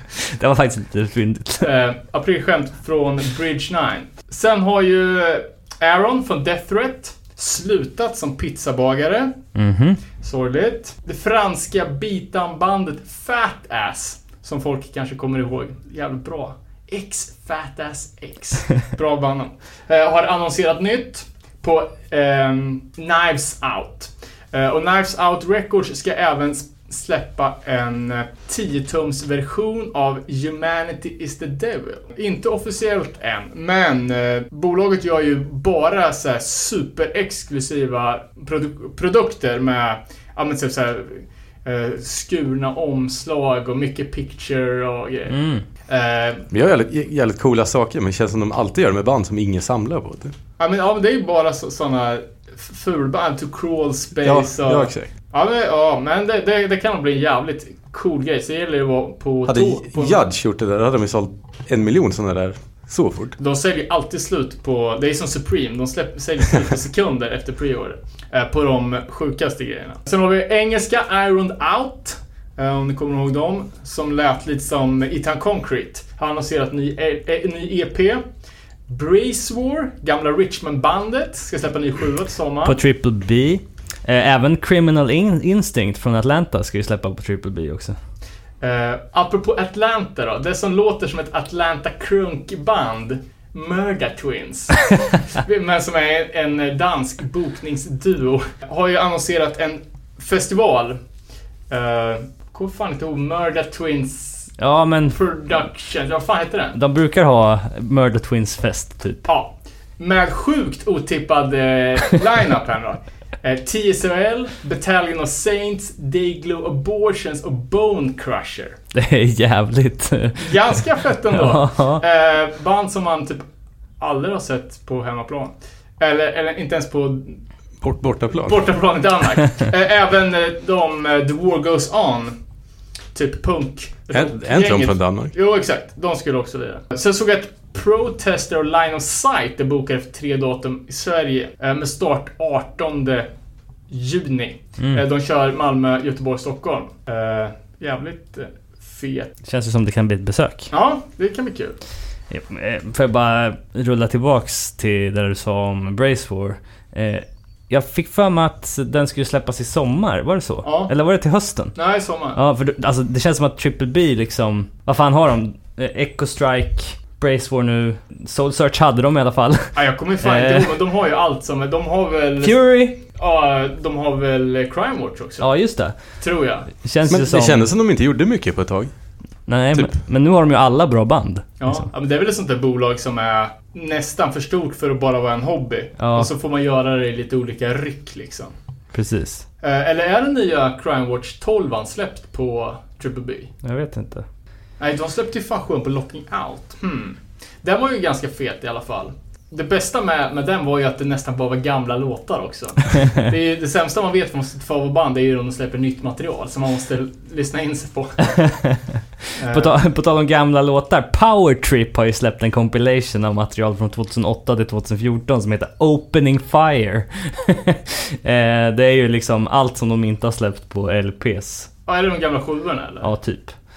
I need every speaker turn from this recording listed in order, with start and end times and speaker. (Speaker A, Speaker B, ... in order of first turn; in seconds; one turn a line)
Speaker A: 0.3-1.7
Speaker B: 1.6-9.4
Speaker A: 9.6-10.0
Speaker B: 10.2-45.4
Speaker A: 45.3-45.6
Speaker B: 45.9-46.5
Speaker C: 46.5-50.3
Speaker B: 50.6-60.2
Speaker C: 54.2-55.1
Speaker C: 59.5-63.4
Speaker B: 63.4-78.2
Speaker B: 78.9-82.8
Speaker A: 82.7-88.0
Speaker B: 88.6-101.0
Speaker B: 101.7-104.5
Speaker A: 104.6-105.2
Speaker B: 105.1-106.8
Speaker A: 106.8-109.2
Speaker B: 109.3-118.8
Speaker A: 119.0-120.8
Speaker B: 120.4-123.4
Speaker A: 121.3-122.0
Speaker B: 124.0-127.4
Speaker C: 127.8-128.6
Speaker B: 128.4-132.4
Speaker B: 133.1-143.3
Speaker C: 134.1-135.3
Speaker B: 143.9-149.3
Speaker A: 149.5-150.7
Speaker B: 150.7-151.8
Speaker A: 152.3-161.8
Speaker B: 160.6-160.9
Speaker B: 161.8-162.4
Speaker A: 162.4-170.7
Speaker B: 169.8-172.6
Speaker A: 172.4-173.0
Speaker B: 173.2-175.5
Speaker A: 175.4-175.9
Speaker B: 176.2-176.7
Speaker A: 176.8-177.6
Speaker C: 177.1-178.9
Speaker A: 179.5-181.8
Speaker B: 181.6-188.5
Speaker A: 186.0-186.3
Speaker A: 188.9-189.5
Speaker B: 189.6-193.5
Speaker A: 193.6-194.2
Speaker B: 194.8-208.3
Speaker A: 208.3-208.8
Speaker B: 209.4-209.8
Speaker A: 209.5-221.7
Speaker B: 221.9-223.1
Speaker A: 223.0-223.6